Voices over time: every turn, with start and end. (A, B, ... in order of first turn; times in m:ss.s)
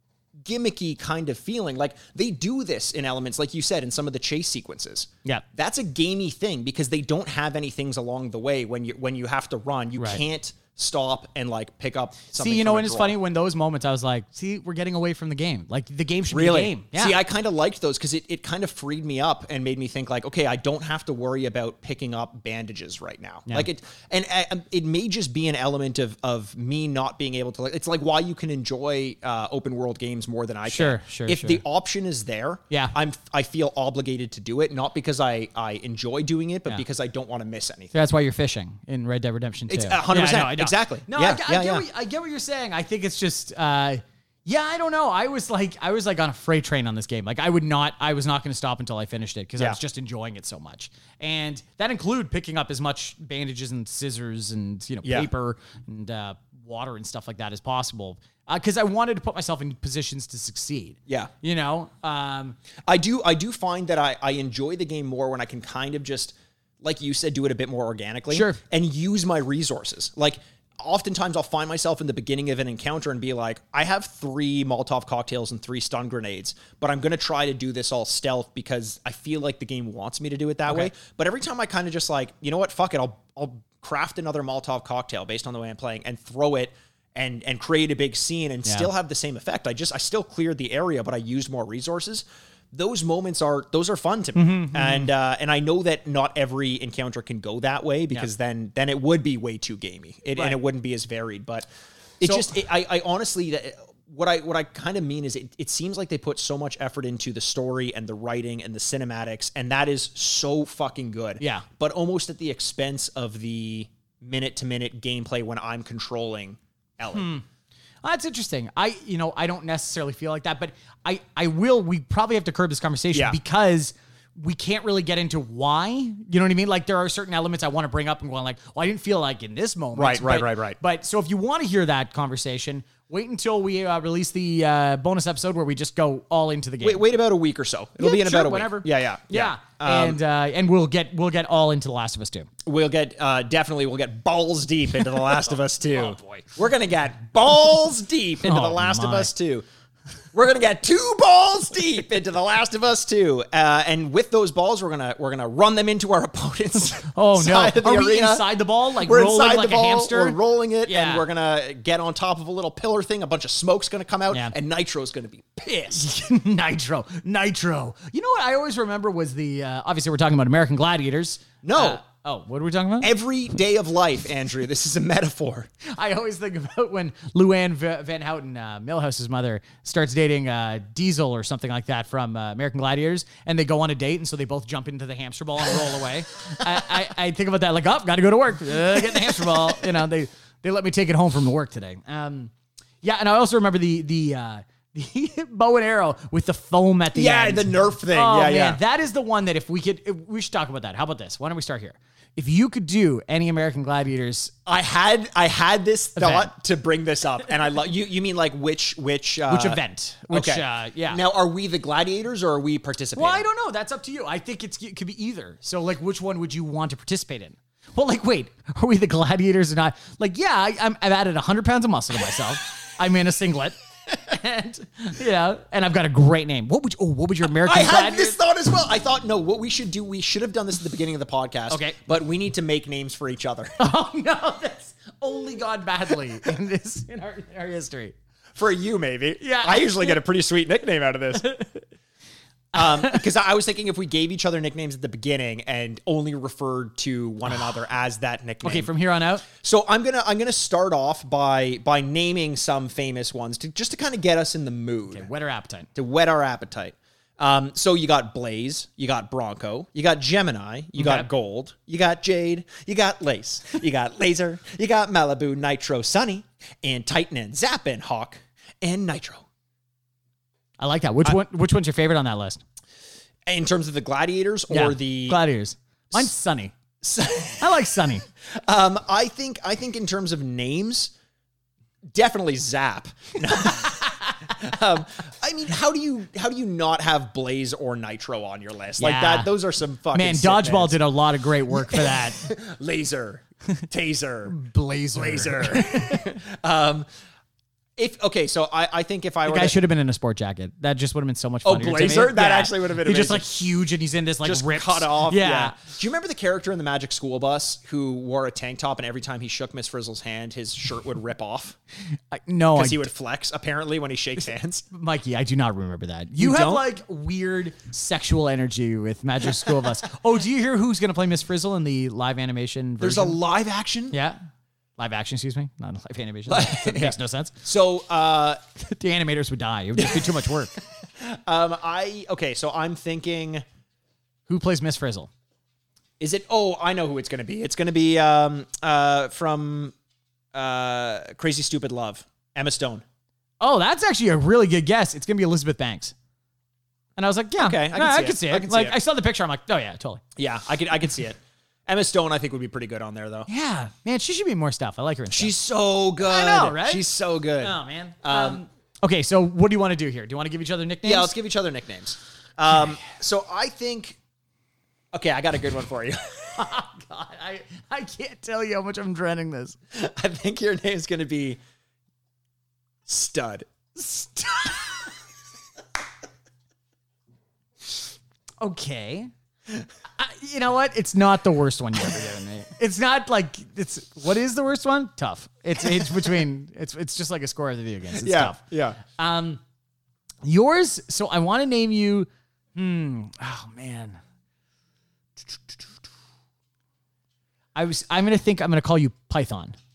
0:00.4-0:13.2 A
0:12.3-0:17.2 B
0:16.3-0:37.9 A
0:30.7-0:31.6 B
0:37.9-1:02.6 B
0:39.7-0:41.8 A
1:02.9-1:41.6 A
1:08.3-1:08.6 B
1:34.3-1:35.1 B
1:42.2-1:57.3 A
1:42.2-1:42.6 B
1:51.4-1:51.6 B
1:57.1-1:57.4 B
1:58.0-2:17.0 B
2:03.1-2:03.4 A
2:10.0-2:10.8 A
2:16.8-2:20.2 A
2:18.0-2:22.5 B
2:22.6-2:29.6 A
2:25.9-2:26.4 B
2:28.4-2:29.3 B
2:30.3-2:46.1 A
2:37.0-2:41.2 B
2:45.9-2:53.1 B
2:51.6-2:52.0 A
2:53.0-2:55.7 A
2:55.8-3:24.5 B
3:09.1-3:09.6 A
3:17.1-3:18.8 A
3:24.6-3:33.4 A
3:26.2-3:26.5 B
3:29.5-3:31.2 B
3:33.1-3:48.4 B
3:47.4-3:53.8 A
3:51.7-3:52.0 B
3:53.8-3:58.1 B
3:58.6-4:01.5 A
3:59.4-4:00.2 B
4:01.5-4:01.8 B
4:02.7-4:08.9 A
4:02.7-4:03.2 B
4:08.6-4:09.4 B
4:09.4-4:15.3 A
4:15.1-4:15.9 B
4:16.0-4:29.4 A
4:21.0-4:21.3 B
4:30.8-4:32.6 B
4:33.5-4:35.4 A
4:34.7-4:36.7 B
4:37.0-4:37.7 A
4:37.6-4:38.2 B
4:38.5-4:41.1 A
4:42.1-4:51.0 A
4:49.0-4:49.5 B
4:50.1-4:52.4 B
4:51.7-4:54.6 A
4:54.5-4:56.4 B
4:55.1-4:57.1 A
4:58.0-4:59.8 A
4:59.4-5:05.8 B
5:01.6-5:03.4 A
5:04.4-5:11.8 A
5:12.3-5:13.1 B
5:12.7-5:14.8 A
5:14.9-5:23.4 B
5:16.4-5:16.8 A
5:23.0-5:24.2 A
5:24.1-5:24.4 B
5:25.0-5:27.6 B
5:26.5-5:28.6 A
5:28.8-5:30.8 B
5:30.0-5:30.5 A
5:31.1-5:33.6 A
5:34.5-5:35.3 B
5:36.2-5:39.9 A
5:40.5-5:43.0 A
5:43.6-5:46.1 B
5:47.2-5:50.2 B
5:47.6-5:48.9 A
5:50.4-5:53.5 A
5:53.5-5:55.5 B
5:55.3-5:58.6 A
5:56.2-5:57.0 B
5:57.6-6:01.3 B
6:01.0-6:04.2 A
6:05.1-6:06.6 A
6:06.6-6:09.8 B
6:09.9-6:11.6 A
6:13.0-6:14.8 A
6:18.6-6:19.3 B
6:20.2-6:29.6 B
6:25.8-6:26.3 A
6:28.1-6:29.0 A
6:30.4-6:34.2 B
6:37.7-6:39.8 B